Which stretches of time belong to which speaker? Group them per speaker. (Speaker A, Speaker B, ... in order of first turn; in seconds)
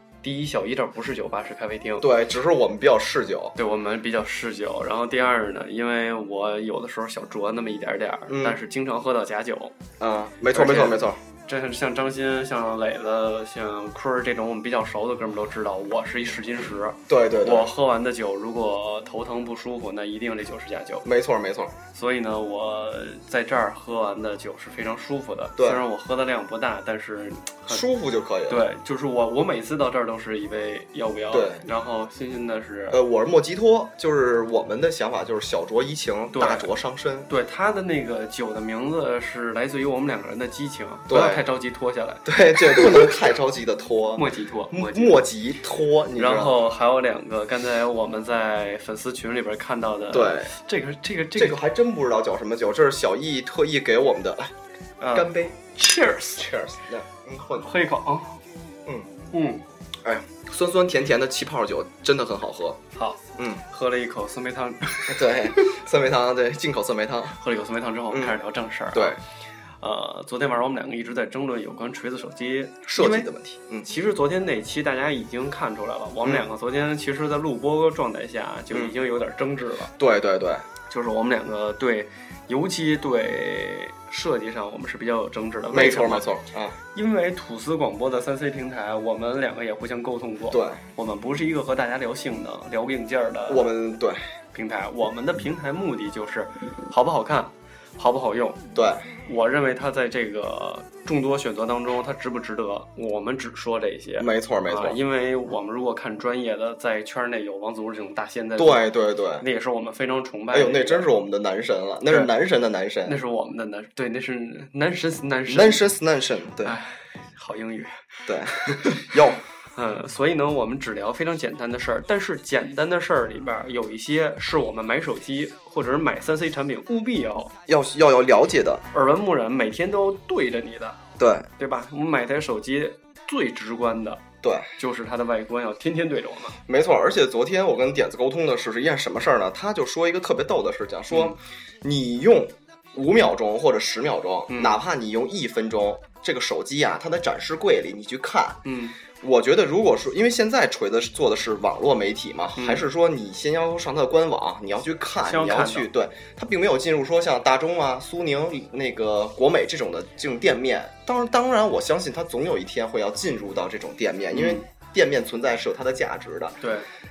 Speaker A: 0.2-2.1, 3.6-9.8, 10.5-21.1, 21.9-27.8, 28.5-33.0, 36.4-36.7, 37.3-43.0, 44.2-45.2, 46.2-51.6, 55.0-56.5, 57.6-58.4, 59.3-59.6, 63.0-65.4, 67.4-69.2, 69.8-73.3, 73.9-79.9, 80.9-86.3, 86.9-93.7, 94.5-98.6, 99.3-108.9, 109.4-111.1, 113.0-115.8, 116.6-119.2, 119.8-127.5, 128.9-131.0, 131.6-134.2, 134.8-136.6, 141.1-141.4, 144.5-144.8, 148.7-149.0, 152.6-152.8, 155.2-155.9, 164.3-164.6, 166.6-166.9
Speaker B: 2.0-3.6, 8.3-8.6, 10.0-11.2, 17.1-17.7, 21.1-21.8, 27.7-28.6, 31.3-31.6, 32.9-37.3, 41.1-41.4, 42.3-46.6, 50.1-50.5, 51.4-54.5, 55.1-55.6, 56.4-57.7, 60.0-62.8, 63.4-63.6, 65.1-67.4, 72.9-73.9, 80.0-80.7, 85.7-86.8, 90.5-90.8, 93.5-94.2, 98.8-99.1, 104.2-105.0, 108.6-109.4, 110.5-113.2, 115.5-116.8, 118.3-119.4, 127.7-128.8, 131.2-131.5, 134.4-134.8, 136.7-148.6, 149.2-166.6